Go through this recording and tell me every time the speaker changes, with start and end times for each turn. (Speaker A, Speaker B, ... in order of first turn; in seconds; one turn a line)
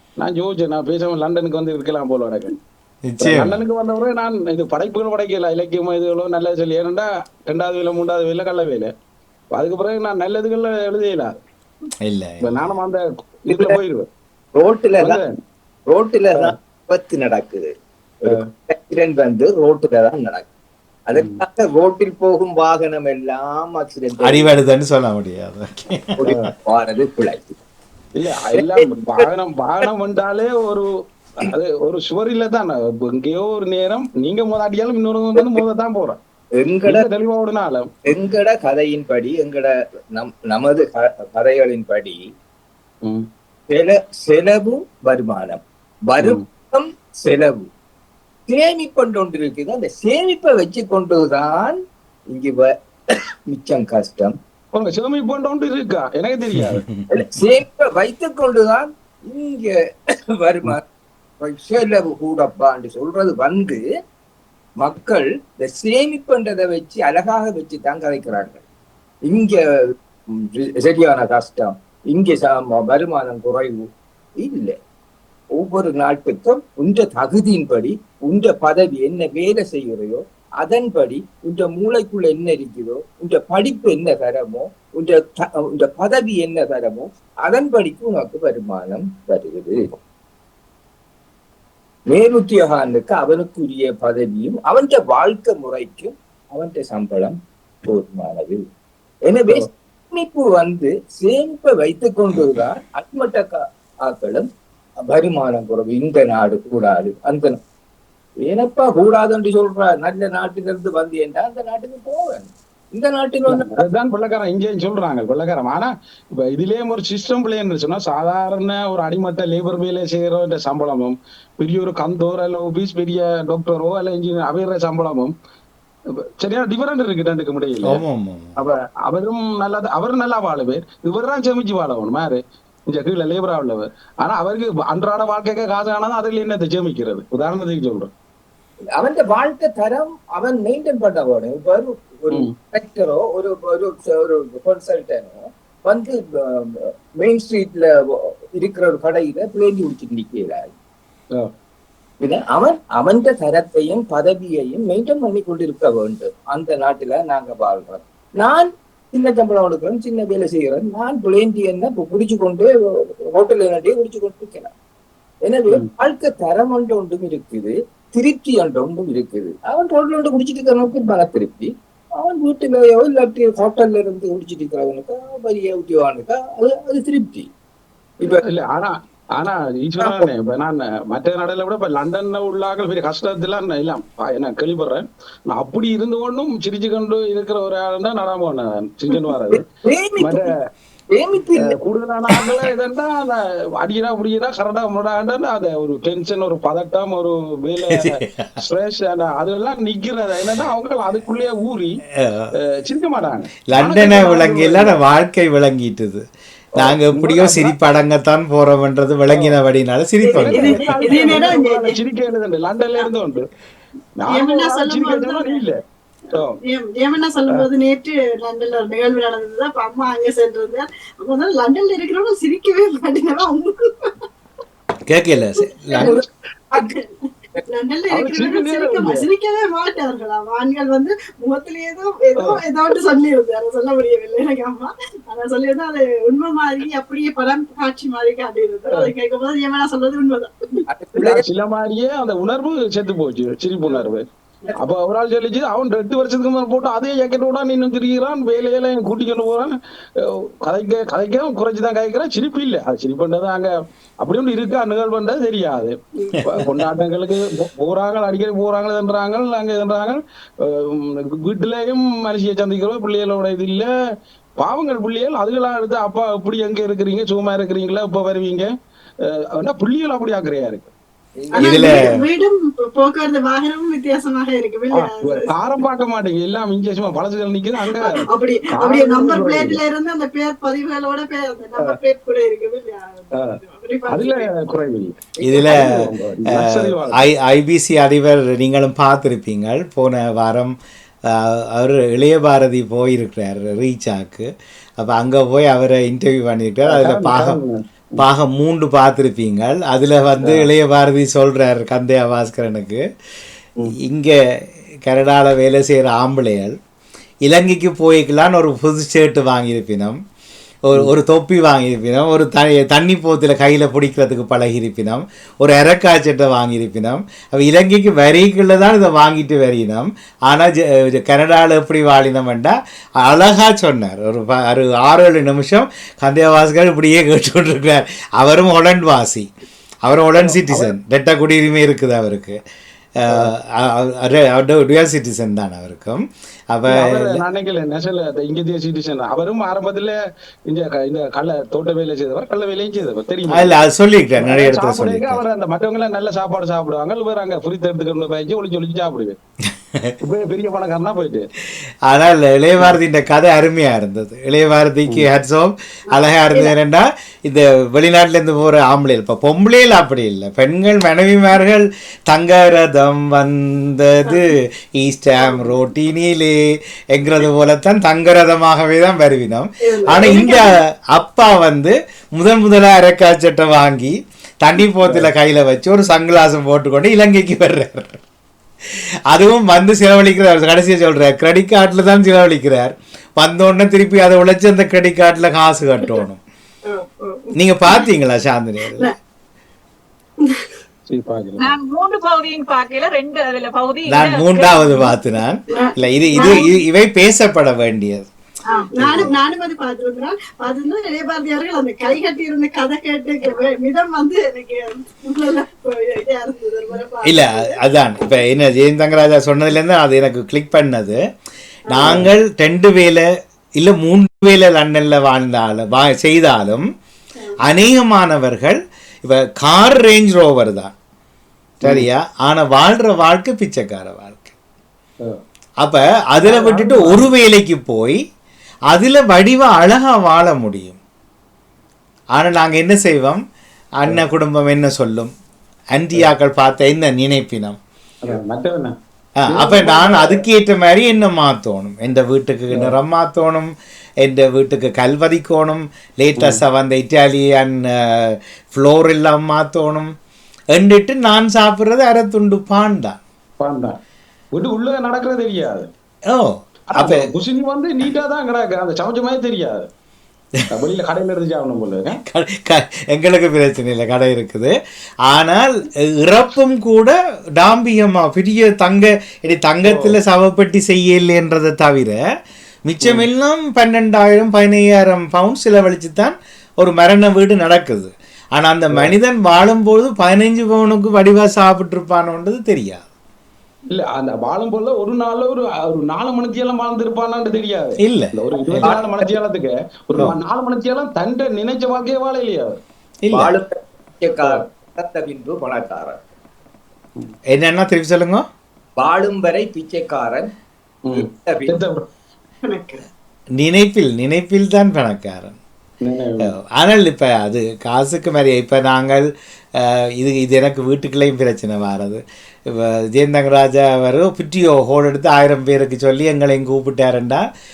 Speaker A: 0.2-2.6
Speaker B: 3.1-3.6
Speaker A: 3.2-8.9
Speaker A: 9.5-11.3
Speaker B: 12.0-12.6
Speaker A: 12.4-14.1
Speaker C: 13.5-13.8
Speaker C: 14.5-15.2
Speaker A: 15.0-15.3
Speaker C: 15.9-20.5
Speaker C: 21.1-24.5
Speaker A: 21.1-21.4
Speaker B: 24.2-26.3
Speaker C: 26.2-27.6
Speaker A: 28.2-30.9
Speaker C: 28.5-29.2
Speaker A: 31.4-36.2
Speaker C: 36.5-37.1
Speaker A: 36.8-37.9
Speaker C: 38.0-42.2
Speaker C: 43.7-47.7
Speaker C: 48.5-51.8
Speaker C: 52.3-54.4
Speaker A: 54.7-56.9
Speaker B: 56.5-57.0
Speaker C: 57.1-59.7
Speaker C: 60.3-60.8
Speaker C: 61.4-63.8
Speaker C: 64.8-68.6
Speaker C: 69.2-73.9
Speaker C: 74.4-74.8
Speaker C: 75.5-90.0
Speaker C: 92.1-98.6
Speaker C: 99.2-104.5
Speaker B: 102.3-102.6
Speaker C: 105.0-107.6
Speaker C: 108.5-113.8
Speaker A: 113.5-125.3
Speaker A: 126.4-128.0
Speaker B: 127.8-128.6
Speaker A: 128.6-138.1
Speaker C: 138.9-150.7
Speaker C: 152.2-164.7
Speaker C: 165.4-177.5
Speaker A: 178.3-189.6
Speaker C: 180.0-180.3
Speaker C: 189.1-190.5
Speaker A: 190.2-190.5
Speaker C: 191.1-191.8
Speaker A: 191.6-202.0
Speaker B: 197.9-198.5
Speaker B: 202.2-202.5
Speaker A: 202.6-205.0
Speaker B: 203.7-206.2
Speaker B: 206.8-211.1
Speaker A: 206.8-207.7
Speaker D: 210.2-212.0
Speaker A: 210.3-213.5
Speaker A: 214.2-215.8
Speaker D: 214.3-215.6
Speaker D: 216.6-224.1
Speaker B: 225.1-226.2
Speaker C: 225.9-227.0
Speaker D: 227.7-240.5
Speaker A: 228.1-229.2
Speaker C: 240.9-241.4
Speaker A: 241.2-244.2
Speaker A: 244.8-263.9
Speaker B: 256.3-256.8
Speaker A: 264.6-268.7
Speaker A: 269.2-270.9
Speaker C: 271.4-271.9
Speaker D: 271.6-275.5
Speaker B: 271.6-272.1
Speaker A: 274.9-279.8
Speaker D: 278.0-284.5
Speaker A: 283.4-287.2
Speaker B: 285.4-290.7
Speaker B: 291.3-297.6
Speaker A: 296.9-298.2
Speaker B: 298.2-303.0
Speaker A: 300.4-300.7
Speaker B: 304.0-304.4
Speaker B: 305.0-306.7
Speaker B: 307.4-310.2
Speaker B: 310.9-329.5
Speaker B: 330.0-332.6
Speaker A: 330.4-330.9
Speaker B: 333.2-337.4
Speaker A: 336.9-343.8
Speaker B: 343.5-345.4
Speaker A: 344.4-349.4
Speaker A: 350.2-351.5
Speaker B: 352.1-366.6
Speaker D: 356.1-356.7
Speaker B: 367.1-378.2
Speaker D: 369.8-370.7
Speaker B: 378.9-386.4
Speaker D: 386.9-387.5
Speaker B: 387.6-389.1
Speaker A: 391.1-391.7
Speaker E: 391.6-395.1
Speaker B: 394.1-398.3
Speaker D: 395.7-396.6
Speaker D: 398.7-407.8
Speaker B: 399.0-399.3
Speaker B: 407.2-411.2
Speaker D: 411.9-412.1
Speaker B: 411.9-413.2
Speaker A: 412.0-412.3
Speaker B: 413.8-416.8
Speaker B: 417.6-420.9
Speaker B: 421.8-424.5
Speaker B: 425.8-428.2
Speaker A: 426.4-427.2
Speaker B: 428.9-431.0
Speaker B: 432.4-433.4
Speaker B: 434.0-435.3
Speaker B: 435.9-437.8
Speaker A: 438.2-438.9
Speaker B: 439.4-443.7
Speaker A: 439.5-440.4
Speaker B: 444.2-450.1
Speaker B: 450.7-453.2
Speaker A: 453.6-454.0
Speaker A: 454.5-455.9
Speaker B: 456.3-457.3
Speaker A: 456.9-459.9
Speaker A: 460.7-462.2
Speaker B: 462.2-464.7
Speaker B: 465.3-472.2
Speaker A: 469.9-470.1
Speaker B: 472.9-483.0
Speaker A: 483.9-492.8
Speaker B: 488.0-489.0
Speaker C: 488.7-489.1
Speaker B: 493.2-493.5
Speaker C: 493.3-496.2
Speaker B: 497.5-498.4
Speaker C: 499.0-500.5
Speaker A: 501.1-502.1
Speaker C: 501.1-501.8
Speaker D: 502.6-503.0
Speaker B: 503.6-505.6
Speaker A: 506.0-506.5
Speaker B: 506.4-509.3
Speaker B: 509.8-517.4